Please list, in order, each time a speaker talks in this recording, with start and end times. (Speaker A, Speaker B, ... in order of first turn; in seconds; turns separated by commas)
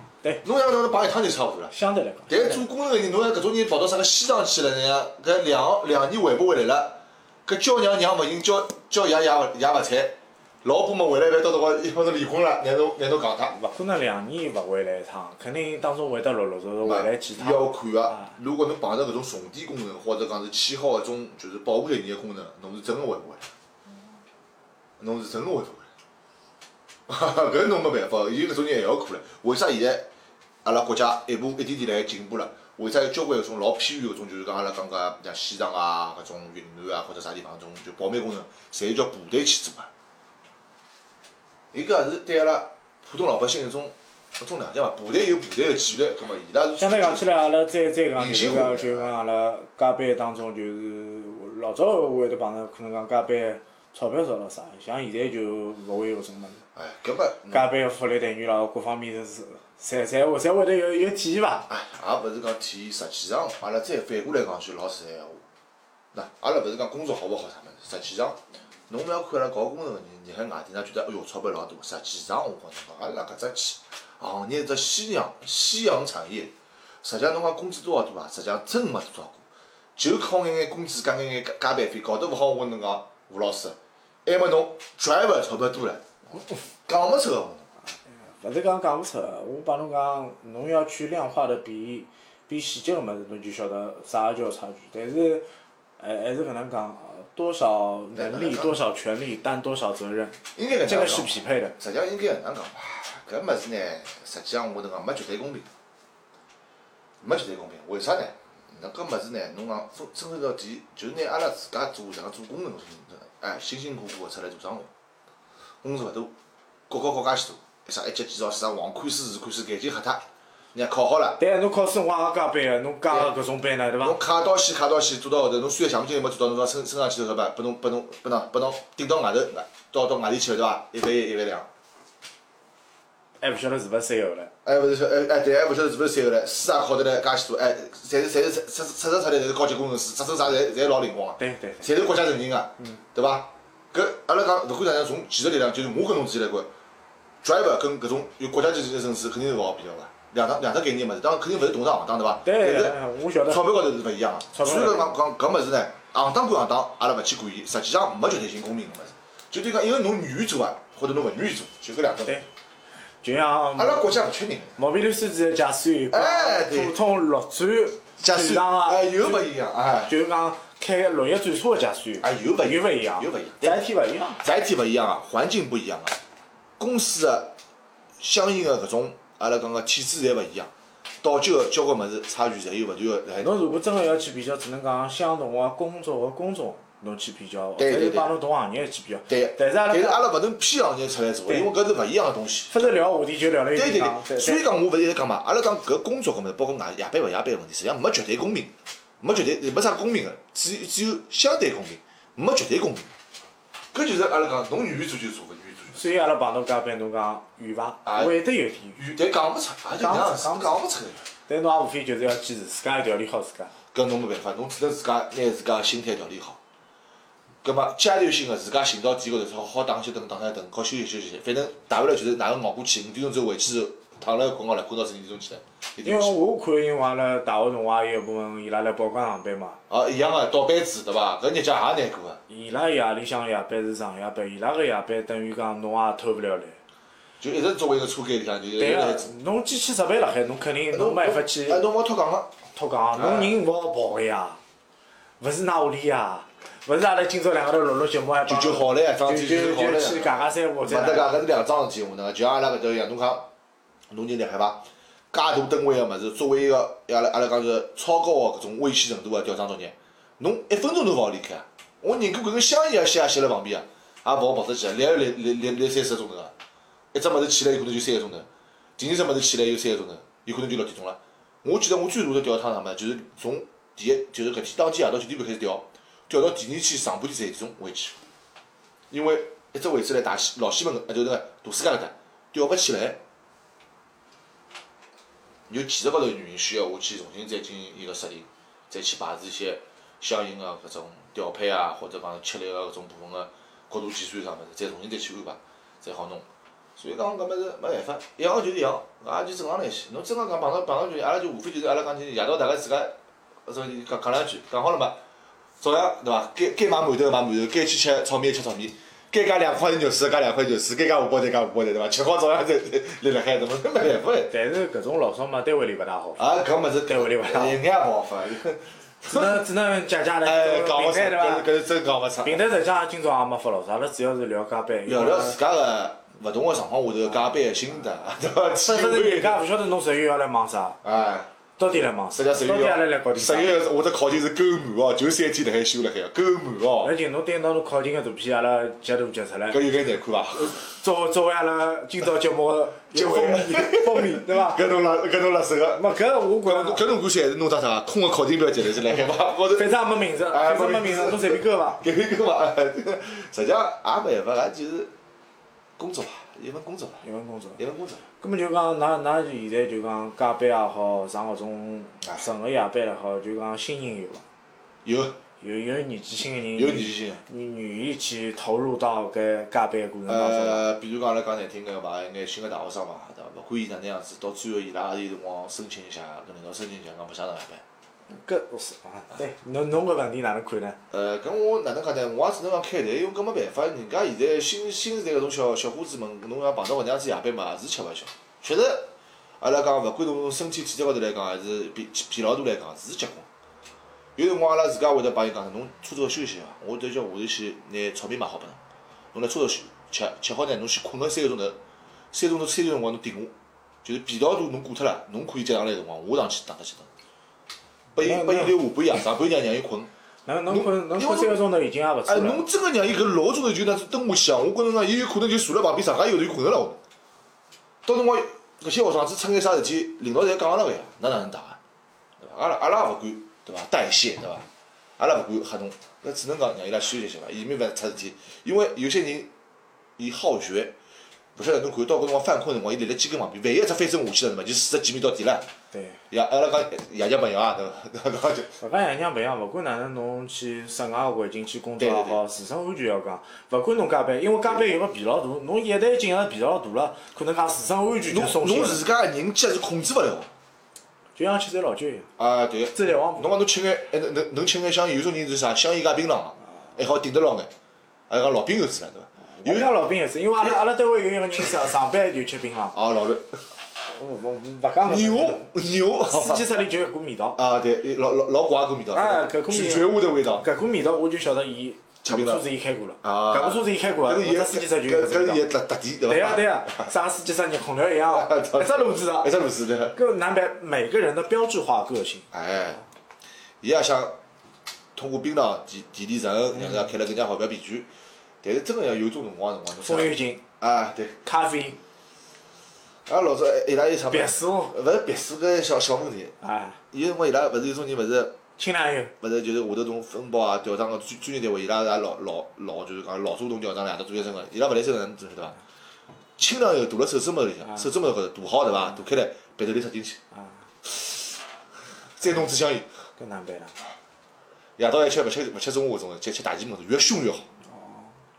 Speaker A: 0.4-1.7, Speaker B: 1.7-2.6, Speaker A: 2.3-13.6, Speaker B: 13.5-18.3, Speaker A: 16.8-23.5, Speaker A: 25.0-25.9, Speaker A: 27.1-30.1, Speaker A: 30.6-39.9, Speaker A: 41.7-47.2, Speaker B: 46.8-56.6, Speaker A: 48.1-49.1, Speaker A: 56.8-57.7, Speaker B: 57.5-61.7, Speaker A: 61.7-65.4, Speaker A: 66.1-79.4, Speaker A: 80.0-86.2, Speaker A: 86.9-87.7, Speaker B: 88.1-95.5, Speaker B: 96.0-101.8, Speaker A: 98.1-98.8, Speaker A: 100.5-105.7, Speaker A: 107.2-114.9, Speaker A: 115.8-116.3, Speaker A: 116.9-121.4, Speaker B: 121.4-124.2, Speaker A: 124.0-131.7, Speaker B: 133.4-134.5, Speaker A: 134.6-146.7, Speaker B: 141.4-141.9, Speaker A: 147.4-162.4, Speaker B: 152.4-153.7, Speaker B: 154.5-155.2, Speaker B: 163.2-164.1, Speaker A: 163.8-164.8, Speaker B: 164.8-169.4, Speaker A: 166.1-166.9, Speaker A: 168.2-170.1, Speaker B: 170.1-174.4, Speaker A: 172.2-173.8, Speaker A: 174.4-176.2, Speaker A: 176.8-177.6, Speaker A: 178.2-180.7, Speaker A: 181.2-183.5, Speaker B: 183.4-190.3, Speaker A: 187.8-188.3, Speaker A: 189.3-192.9, Speaker B: 192.7-194.6, Speaker A: 193.7-203.1, Speaker A: 203.9-206.0, Speaker B: 205.9-209.0, Speaker A: 208.0-208.3, Speaker A: 208.9-211.2, Speaker B: 210.0-210.8, Speaker B: 211.5-213.7, Speaker A: 213.9-216.6, Speaker A: 217.6-226.4, Speaker B: 226.0-229.8, Speaker A: 229.9-232.4, Speaker B: 232.5-236.8, Speaker A: 237.4-239.3, Speaker B: 238.8-241.8, Speaker A: 240.9-242.5, Speaker B: 242.7-244.6, Speaker A: 243.1-243.6, Speaker B: 245.4-251.3, Speaker A: 248.5-253.5, Speaker A: 254.1-266.5, Speaker A: 267.1-278.1, Speaker A: 279.1-283.2, Speaker A: 285.7-303.1, Speaker A: 303.6-305.2, Speaker A: 305.8-314.5, Speaker B: 314.5-316.4, Speaker A: 316.4-319.6, Speaker B: 317.1-317.8, Speaker B: 319.2-321.7, Speaker A: 320.4-322.6, Speaker B: 322.4-325.6, Speaker A: 325.1-329.6, Speaker B: 328.8-331.0, Speaker A: 331.0-331.5, Speaker B: 331.8-333.8, Speaker A: 332.3-337.1, Speaker B: 337.0-339.8, Speaker A: 339.7-340.8, Speaker B: 340.5-344.9, Speaker A: 343.1-346.0, Speaker B: 345.9-347.0, Speaker A: 346.6-349.9, Speaker B: 349.7-352.0, Speaker A: 350.5-355.1, Speaker A: 356.0-357.2, Speaker B: 357.2-357.8, Speaker A: 357.8-358.2, Speaker B: 358.4-364.4, Speaker A: 365.0-365.4, Speaker B: 365.6-370.8, Speaker A: 366.8-367.4, Speaker A: 370.3-377.8, Speaker B: 378.3-381.0, Speaker A: 381.1-393.5, Speaker A: 394.4-398.8, Speaker A: 399.3-401.8, Speaker A: 402.3-403.5, Speaker A: 404.0-407.1, Speaker A: 408.1-410.1, Speaker B: 408.2-408.8, Speaker B: 410.5-412.6, Speaker A: 410.7-411.6, Speaker A: 412.3-417.0, Speaker A: 418.0-421.8, Speaker A: 422.4-424.7, Speaker A: 425.2-429.5, Speaker A: 430.2-431.0, Speaker A: 431.6-435.7, Speaker B: 435.9-436.2, Speaker A: 436.3-438.8, Speaker B: 438.8-449.0, Speaker A: 442.0-442.4, Speaker A: 448.3-450.5, Speaker B: 451.4-452.3, Speaker A: 452.4-457.7, Speaker B: 452.9-453.5, Speaker A: 458.3-459.9, Speaker B: 459.5-462.9, Speaker A: 462.9-463.6, Speaker B: 464.1-467.6, Speaker A: 465.0-466.6, Speaker A: 467.6-470.6, Speaker B: 469.1-475.6, Speaker A: 472.2-472.6, Speaker A: 473.2-477.1, Speaker B: 476.3-479.5, Speaker A: 478.3-480.1, Speaker B: 480.1-482.5, Speaker A: 482.5-483.0, Speaker A: 483.8-484.4, Speaker A: 485.1-488.1, Speaker A: 488.6-491.4, Speaker B: 490.0-490.6, Speaker B: 491.4-492.0, Speaker A: 493.2-496.6, Speaker B: 494.3-495.0, Speaker B: 496.6-497.0, Speaker A: 497.1-498.6, Speaker B: 498.8-499.3, Speaker A: 499.4-505.8, Speaker A: 506.6-510.4, Speaker A: 511.0-511.6, Speaker A: 512.4-513.1, Speaker B: 513.4-514.0, Speaker A: 515.0-517.7, Speaker B: 517.8-518.4